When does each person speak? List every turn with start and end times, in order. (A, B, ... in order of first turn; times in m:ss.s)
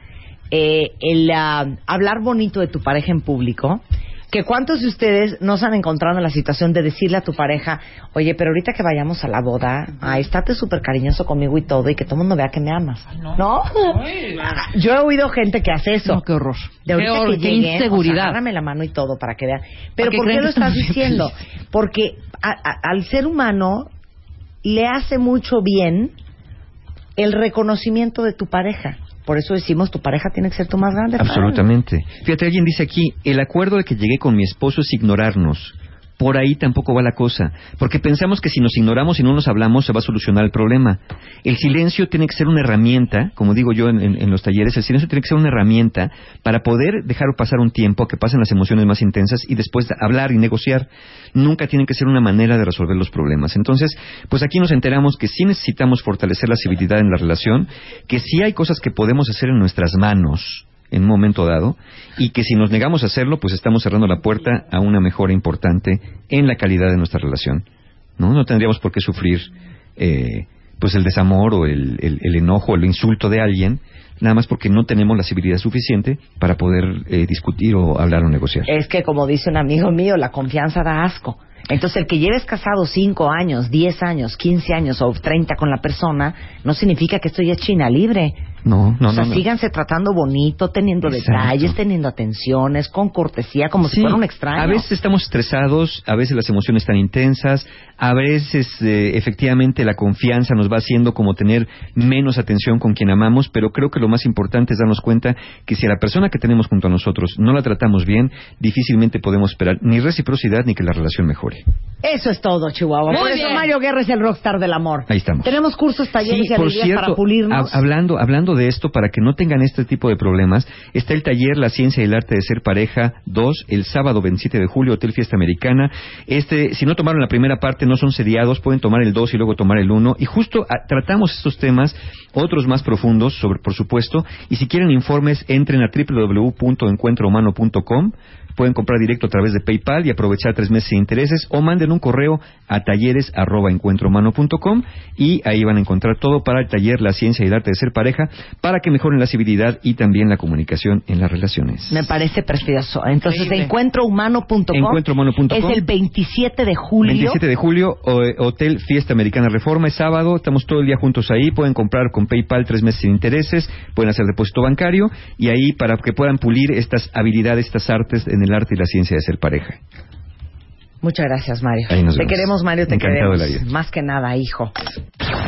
0:00.5-0:16.2 A
0:16.0-0:18.4 B
0:16.8-0:23.9 A
0:20.0-0:21.3 B
0:24.6-0:26.1 A
0:27.2-0:31.6 A
0:31.2-1:07.6 C
1:08.2-1:18.7 C
1:18.7-1:28.4 A
1:28.6-1:29.4 C
1:29.1-1:34.8 A
1:31.0-1:31.7 C
1:33.8-1:51.6 C
1:52.0-1:57.8 A
1:53.1-1:53.7 B
1:55.1-1:55.6 C
1:56.2-2:32.0 C
2:31.9-2:37.4 A
2:33.3-2:33.7 B
2:34.7-2:35.8 C
2:37.0-2:49.8 C
2:51.0-2:54.7 A
2:51.9-2:53.6 C